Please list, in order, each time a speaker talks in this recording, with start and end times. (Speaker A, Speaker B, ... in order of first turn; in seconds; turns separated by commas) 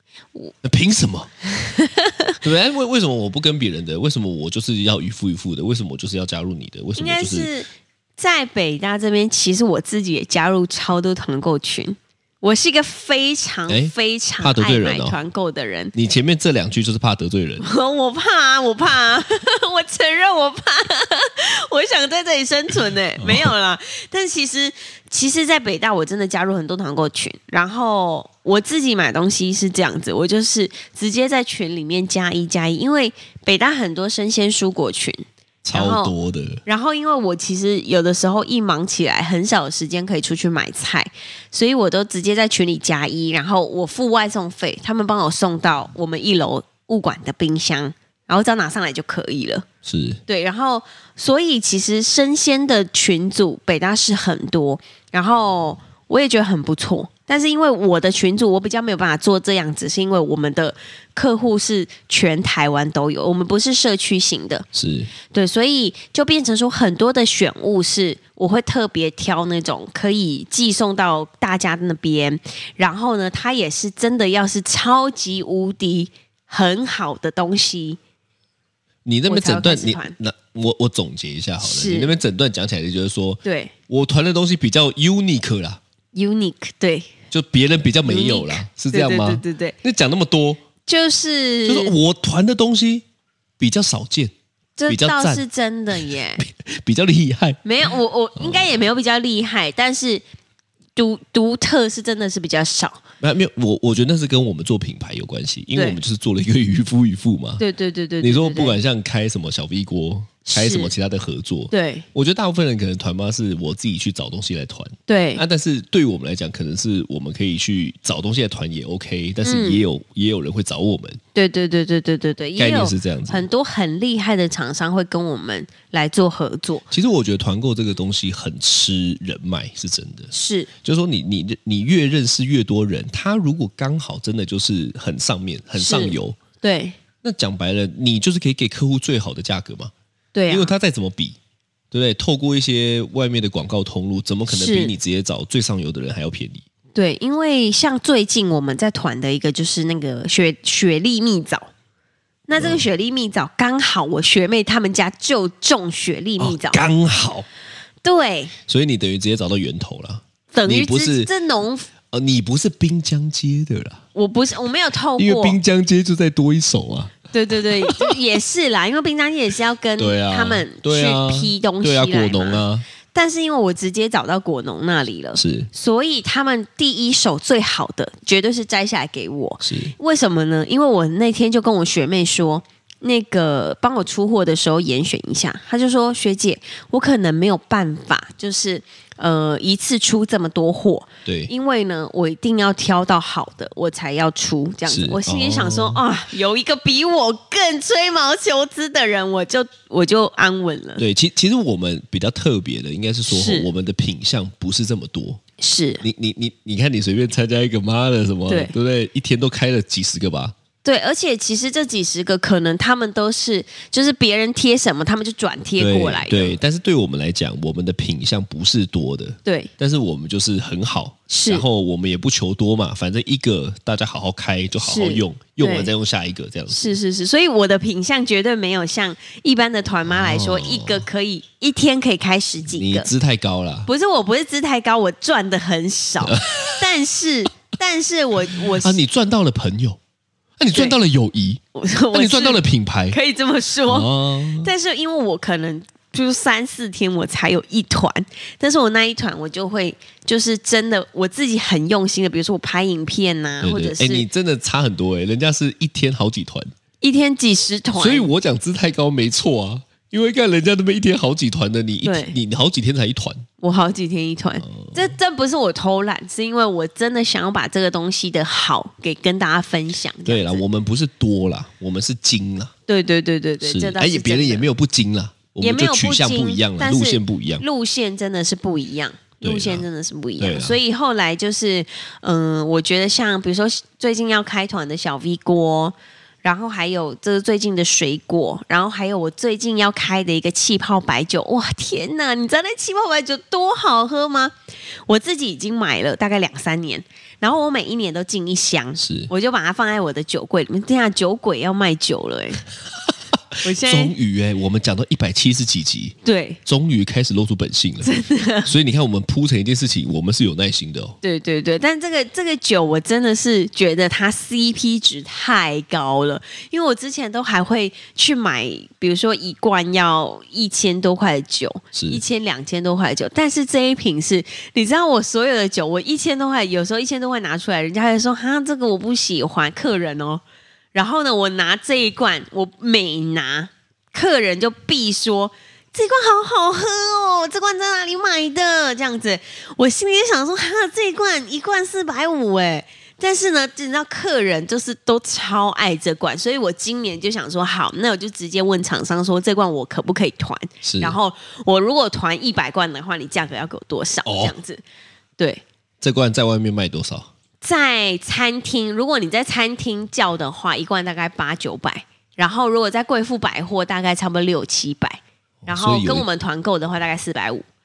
Speaker A: 0.6-1.3, Speaker B: 1.6-2.4, Speaker A: 2.4-7.5, Speaker B: 7.0-15.9, Speaker A: 13.7-15.2, Speaker A: 15.9-17.6, Speaker B: 17.6-36.1, Speaker A: 23.2-23.5, Speaker A: 35.6-36.6, Speaker B: 36.6-49.7, Speaker A: 49.8-50.2, Speaker B: 50.3-64.7, Speaker A: 64.7-65.1, Speaker B: 65.3-78.0, Speaker A: 79.0-85.8, Speaker B: 79.3-80.1, Speaker B: 81.6-82.1, Speaker B: 83.4-83.7, Speaker B: 86.1-87.1, Speaker A: 87.3-90.6, Speaker B: 88.0-89.8, Speaker B: 90.8-91.9, Speaker A: 91.7-93.0, Speaker A: 93.6-94.3, Speaker B: 94.8-96.4, Speaker A: 94.9-95.4, Speaker A: 95.9-97.6, Speaker B: 97.6-100.2, Speaker A: 98.3-98.8, Speaker B: 101.0-103.0, Speaker A: 103.2-107.6, Speaker B: 105.7-106.0, Speaker B: 107.6-108.8, Speaker A: 108.2-121.2, Speaker B: 110.4-110.9, Speaker B: 111.7-112.0, Speaker B: 115.1-115.4, Speaker B: 119.4-119.8, Speaker B: 121.3-126.9, Speaker A: 122.6-123.5, Speaker A: 126.9-130.3, Speaker B: 130.3-130.7, Speaker A: 130.8-136.4, Speaker B: 135.8-136.9, Speaker A: 137.2-139.9, Speaker B: 140.3-140.7, Speaker A: 140.5-141.4, Speaker A: 141.9-146.6, Speaker B: 144.5-144.9, Speaker B: 146.9-151.7, Speaker B: 152.5-156.8, Speaker A: 152.6-152.8, Speaker A: 156.4-157.4, Speaker B: 158.0-158.5, Speaker A: 158.7-161.3, Speaker B: 160.5-161.9, Speaker A: 162.1-164.0, Speaker B: 164.1-165.6, Speaker A: 165.2-167.2, Speaker B: 167.3-201.0, Speaker A: 167.7-168.2, Speaker A: 170.0-172.8, Speaker A: 175.3-175.7, Speaker A: 179.6-179.9, Speaker A: 191.2-191.5, Speaker A: 194.8-196.0, Speaker A: 201.0-205.4, Speaker B: 203.3-203.7, Speaker B: 205.6-206.0, Speaker A: 206.0-210.5, Speaker B: 208.5-208.7, Speaker B: 210.8-216.6, Speaker A: 215.8-227.0, Speaker B: 219.4-219.7, Speaker B: 221.3-221.6, Speaker B: 224.8-225.9, Speaker B: 226.7-233.1, Speaker A: 230.1-231.0, Speaker A: 232.7-233.9, Speaker B: 233.8-239.0, Speaker A: 236.2-236.8, Speaker A: 238.8-240.0, Speaker A: 240.6-243.2, Speaker B: 241.7-254.2, Speaker A: 243.9-244.7, Speaker A: 253.6-256.7, Speaker B: 257.0-258.3, Speaker A: 257.9-263.5, Speaker B: 262.0-262.4, Speaker B: 263.6-270.6, Speaker A: 264.6-265.1, Speaker A: 270.2-272.7, Speaker B: 272.9-274.7, Speaker A: 273.6-277.6, Speaker B: 275.6-294.5, Speaker A: 279.4-279.9, Speaker A: 280.4-280.8, Speaker B: 295.1-302.6, Speaker A: 299.0-299.3, Speaker A: 303.5-308.1, Speaker B: 303.6-304.1, Speaker B: 306.2-306.6, Speaker B: 308.0-308.7, Speaker A: 308.6-311.2, Speaker B: 311.2-330.4, Speaker A: 321.9-322.2, Speaker B: 330.9-354.8, Speaker A: 350.8-351.2, Speaker A: 354.2-354.5, Speaker A: 356.0-357.3, Speaker B: 357.6-367.6, Speaker A: 365.6-366.2